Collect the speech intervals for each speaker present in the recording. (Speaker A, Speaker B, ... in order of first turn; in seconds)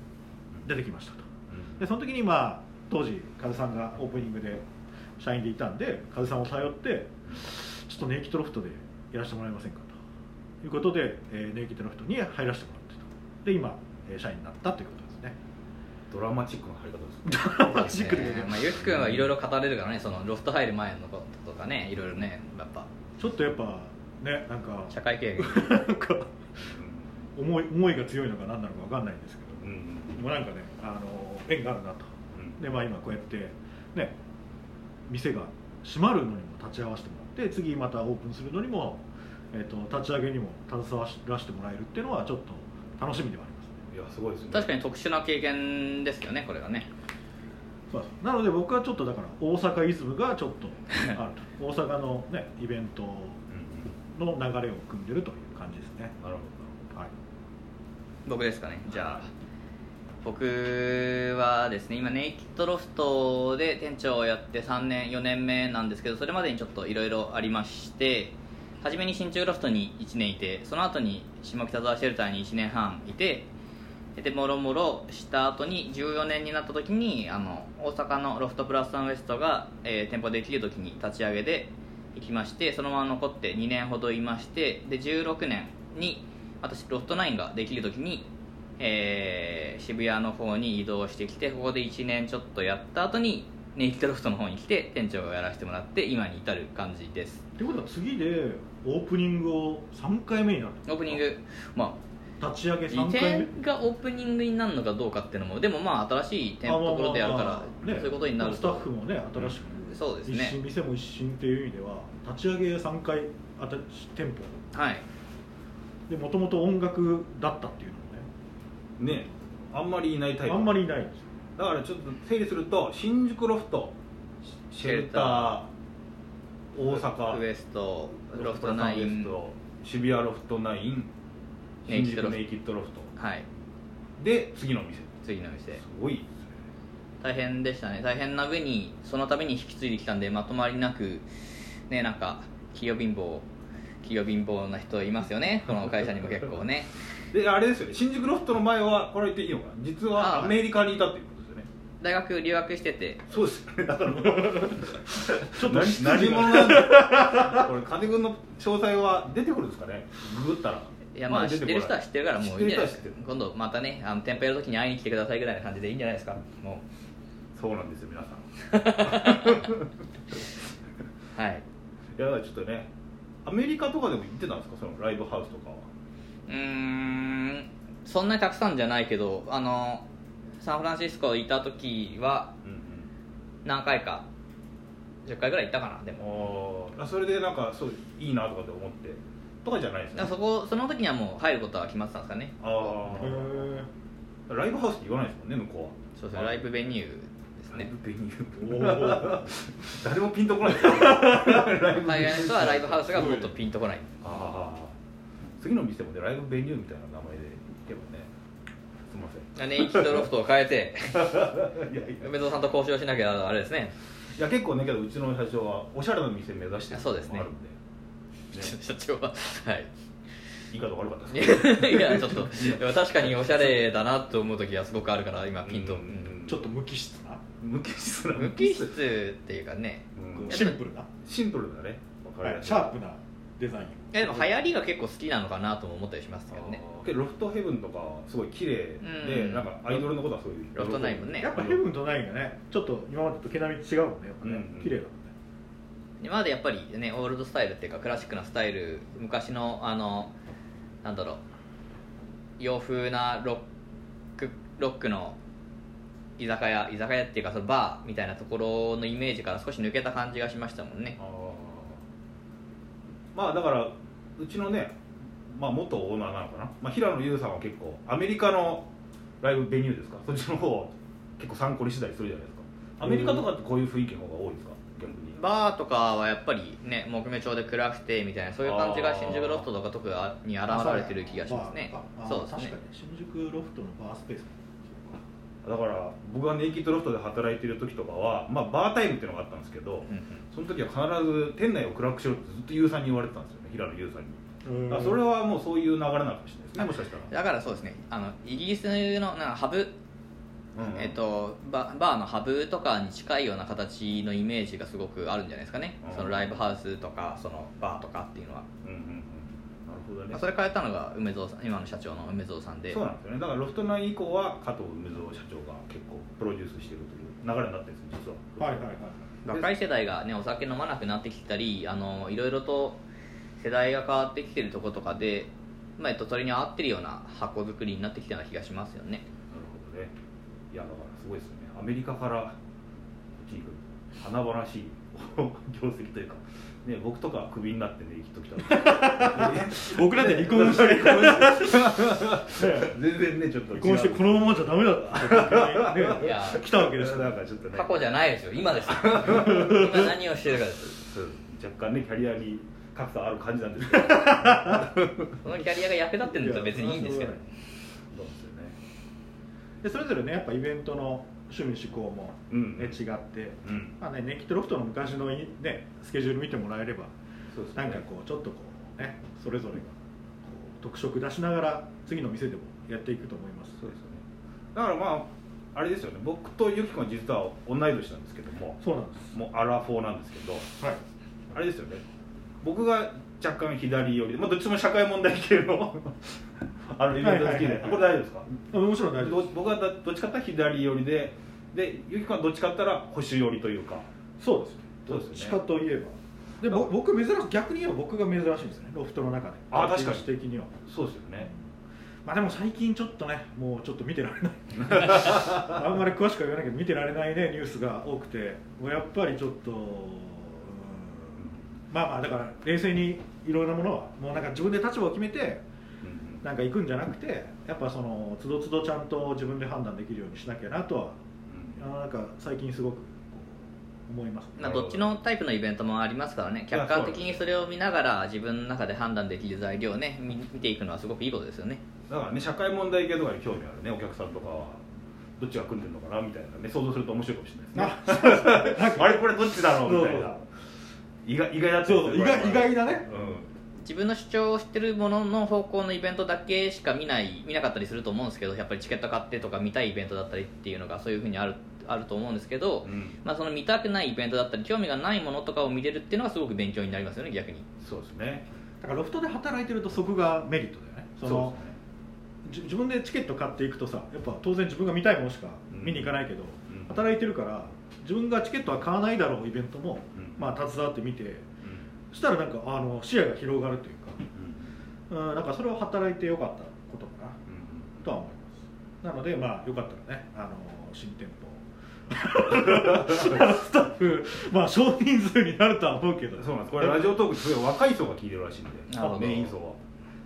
Speaker A: 0.6-1.3, 1.8-4.6, 5.2-9.9, 10.6-15.3, 17.2-18.7, 23.2-26.4, 27.3-34.1, 35.1-43.8, 47.9-53.4, 54.1-56.2, 97.6-101.2, 102.4-103.5, 106.6-114.5, 116.1-118.3, 120.5-121.2, 155.5-157.7, 193.2-193.9, 198.6-199.4, 201.3-201.7, 203.1-203.4, 226.4-227.4, 230.3-231.1, 232.4-234.5, 241.4-245.3, 273.0-273.5, 280.6-285.2, 294.6-295.2, 318.6-319.2, 338.6-342.9, 343.7-347.4, 349.3-349.9, 354.1-354.8, 356.2-357.4, 359.8-367.1, 367.7-373.9, 378.8-379.3, 387.2-388.1, 388.7-389.4, 394.4-400.8, 402.2-415.6, 416.4-421.2, 421.8-424.8, 437.7-440.4, 441.8-443.1, 458.8-461.6, 462.4-471.5, 472.1-474.2, 475.1-477.4, 478.0-487.3
Speaker B: 1.5-1.8, 16.1-17.9, 18.7-19.3, 26.6-27.3, 29.6-30.2, 32.3-32.6, 43.9-44.7, 53.5-53.9, 56.2-56.8, 119.0-120.9, 121.6-123.9, 124.7-125.7, 126.7-127.4, 128.3-131.1, 131.8-133.1, 134.2-135.2, 135.7-136.5, 147.3-151.7, 153.3-163.2, 167.5-169.9, 172.2-172.9, 173.4-175.9, 182.6-183.1, 186.2-190.4, 192.6-193.7, 194.5-196.7, 197.7-203.5, 204.2-204.9, 205.6-208.3, 209.1-210.3, 211.1-212.3, 214.3-217.8, 220.7-223.8, 225.6-226.6, 227.6-228.9, 230.2-233.0, 236.5-241.8, 244.4-245.0, 261.2-262.0, 263.3-264.9, 265.5-268.9, 269.4-275.4, 278.6-279.6, 285.6-297.3, 300.8-301.2, 306.0-306.6, 308.8-310.4, 312.9-318.9, 329.5-330.1, 330.7-332.6, 333.4-348.0, 348.9-350.0, 350.8-355.3, 358.1-358.8, 362.5-363.0, 363.6-363.9, 367.5-368.0, 373.8-374.2, 374.7-380.7, 381.5-382.0, 382.6-388.6, 389.1-394.1, 395.1-395.6, 399.7-400.3, 400.8-401.5, 405.0-405.6, 411.4-411.7, 416.0-416.4, 421.5-421.8, 424.6-425.2, 426.7-427.6, 432.1-434.8, 435.4-440.4, 441.2-443.5, 452.8-453.2, 457.8-458.4, 461.2-461.8, 465.7-466.9, 470.1-470.4, 471.6-471.9, 474.3-474.7, 477.5-478.0, 486.4-489.8
Speaker C: 17.7-22.9, 24.9-25.7, 44.5-46.9, 58.2-59.3, 60.2-73.5, 74.2-88.2, 88.8-97.4, 100.9-102.0, 102.9-108.8, 109.9-110.6, 114.7-115.0, 124.8-125.6, 126.9-129.3, 131.9-132.4, 133.2-133.4, 135.2-135.8, 137.2-141.3, 141.9-143.5, 144.0-146.9, 150.2-150.6, 152.0-153.2, 161.1-166.8, 168.7-169.7, 171.3-171.6, 176.5-180.0, 180.6-182.5, 183.6-184.2, 185.2-186.2, 190.1-192.6, 196.2-197.9, 202.0-204.1, 209.6-211.6, 212.2-213.9, 216.9-217.5, 218.5-219.9, 221.3-226.3, 228.3-230.8, 234.1-236.8, 239.0-240.1, 240.7-241.5, 246.2-250.3, 251.0-251.4, 252.6-253.6, 254.4-255.4, 256.4-261.2, 275.4-282.7, 290.1-290.4, 296.8-299.9, 300.9-308.6, 310.3-313.0, 319.4-323.0, 323.6-329.2, 346.2-346.6, 347.7-350.9, 355.4-357.4, 424.6-431.8, 443.8-457.6, 488.9-489.6